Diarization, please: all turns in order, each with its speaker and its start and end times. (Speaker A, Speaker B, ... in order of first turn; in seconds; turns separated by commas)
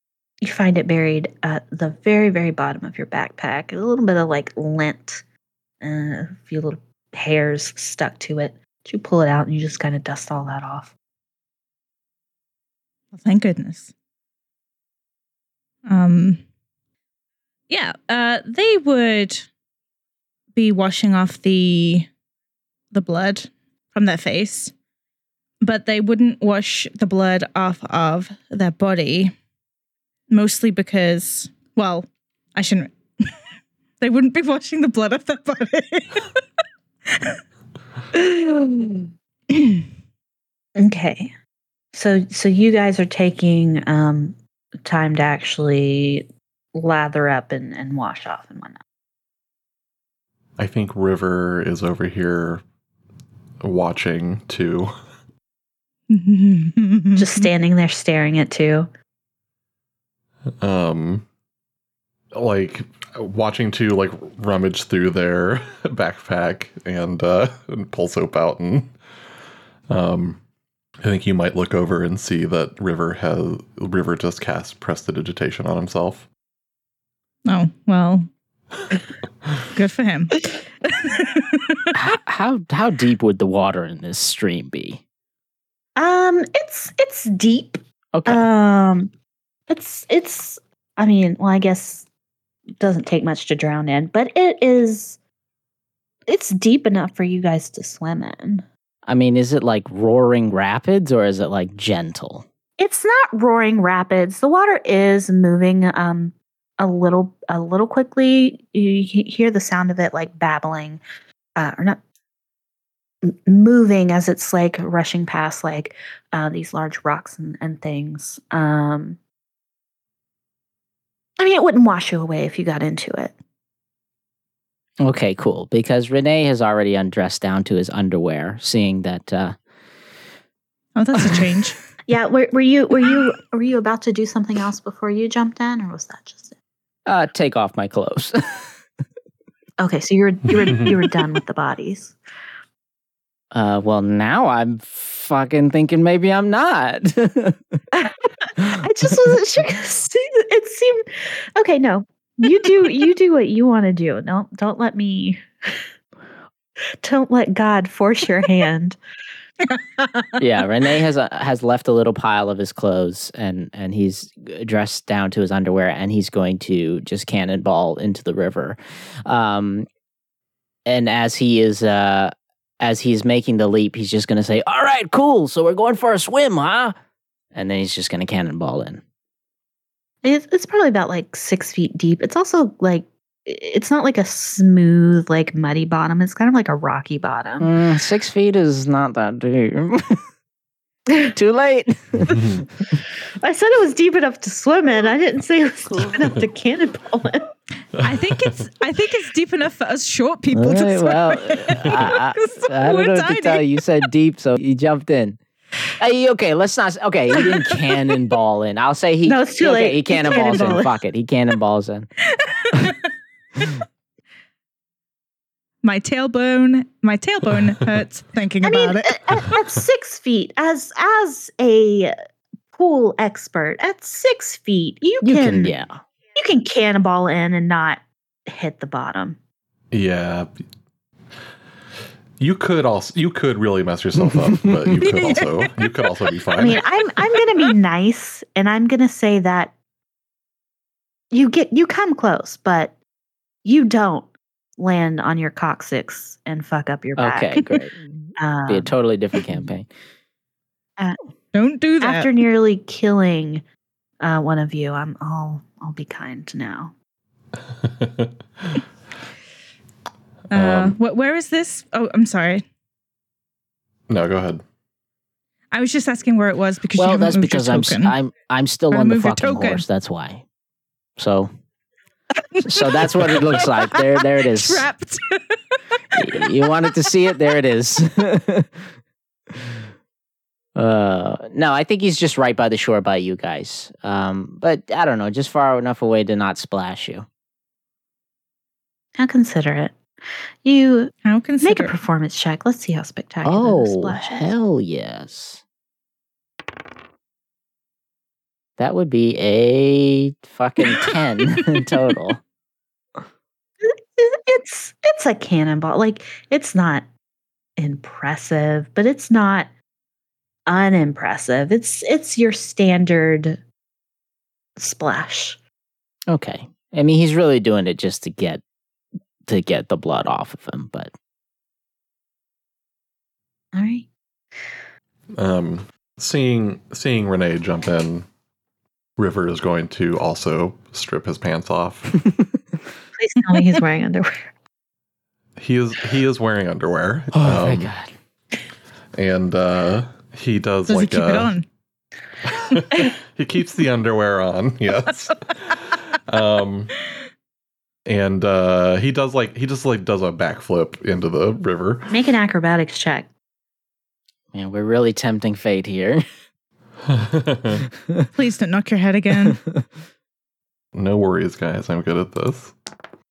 Speaker A: 0.4-5.2, Speaker A: 5.8-10.9, Speaker B: 13.1-13.9, Speaker B: 15.9-16.4, Speaker B: 17.7-19.5, Speaker B: 20.5-22.1, Speaker B: 22.9-24.7, Speaker B: 25.6-29.3, Speaker B: 30.3-33.3, Speaker B: 34.0-36.3, Speaker B: 37.1-37.4, Speaker A: 38.1-39.1, Speaker B: 39.5-39.9, Speaker A: 40.8-41.3, Speaker A: 41.9-48.8, Speaker C: 50.6-52.6, Speaker C: 53.6-54.9, Speaker B: 56.1-57.5, Speaker A: 57.2-58.9, Speaker C: 60.6-61.3, Speaker C: 62.3-68.9, Speaker C: 69.9-70.4, Speaker C: 71.0-76.3, Speaker B: 77.5-78.3, Speaker B: 79.7-81.9, Speaker D: 82.0-85.0, Speaker A: 86.0-89.1, Speaker D: 88.1-88.4, Speaker A: 89.7-92.1, Speaker A: 92.8-95.2, Speaker A: 96.3-98.7, Speaker D: 99.1-102.5, Speaker A: 102.8-111.0, Speaker A: 111.6-112.0, Speaker A: 113.2-119.2, Speaker A: 121.4-123.3, Speaker D: 125.0-129.6, Speaker B: 131.0-131.8, Speaker D: 131.2-131.6, Speaker A: 132.1-136.6, Speaker D: 137.1-138.8, Speaker A: 139.8-142.2, Speaker C: 140.6-140.9, Speaker D: 143.5-147.8, Speaker A: 147.9-155.8, Speaker A: 157.0-159.0, Speaker B: 159.8-160.3, Speaker D: 160.4-169.9, Speaker D: 170.9-177.0, Speaker D: 177.5-179.0, Speaker A: 180.2-187.7, Speaker D: 187.6-190.2, Speaker D: 191.3-192.7, Speaker C: 192.3-192.6, Speaker A: 193.4-197.5, Speaker B: 198.0-203.6, Speaker D: 200.5-205.4, Speaker D: 206.0-212.1, Speaker A: 209.2-210.9, Speaker B: 212.3-213.0, Speaker B: 215.8-219.2, Speaker A: 218.6-222.2, Speaker A: 222.7-225.8, Speaker D: 225.2-226.0, Speaker A: 226.3-229.4, Speaker C: 229.9-230.5, Speaker C: 232.4-236.8, Speaker D: 234.3-234.9, Speaker B: 235.0-236.1, Speaker A: 236.6-239.8, Speaker A: 241.3-243.0, Speaker A: 243.6-247.6, Speaker D: 247.2-248.0, Speaker A: 248.4-248.9, Speaker D: 248.7-249.9, Speaker B: 251.5-252.3, Speaker A: 252.0-253.6, Speaker A: 254.2-256.9, Speaker C: 257.8-258.8, Speaker C: 260.5-261.0, Speaker B: 260.5-262.6, Speaker C: 264.1-264.6, Speaker B: 265.7-268.2, Speaker D: 267.0-270.5, Speaker B: 268.9-269.8, Speaker D: 271.2-271.5, Speaker B: 272.5-276.2, Speaker D: 272.7-274.9, Speaker D: 276.2-278.9, Speaker B: 276.8-277.1, Speaker D: 280.8-287.3, Speaker A: 289.2-290.0, Speaker A: 290.6-294.5, Speaker B: 291.2-291.9, Speaker D: 293.4-295.6, Speaker D: 298.8-302.4, Speaker A: 303.8-307.1, Speaker A: 307.8-309.7, Speaker A: 310.7-313.6, Speaker A: 314.8-315.6, Speaker D: 316.3-318.6, Speaker D: 319.5-321.1, Speaker A: 323.7-324.7, Speaker C: 325.4-328.3, Speaker C: 329.2-332.2, Speaker A: 333.2-334.5, Speaker C: 335.6-337.9, Speaker D: 337.3-338.1, Speaker C: 339.2-341.6, Speaker B: 340.9-341.7, Speaker C: 342.4-347.0, Speaker C: 348.1-352.1, Speaker A: 352.1-353.3, Speaker D: 354.5-356.2, Speaker C: 357.1-357.9, Speaker B: 358.4-359.6, Speaker C: 360.9-362.8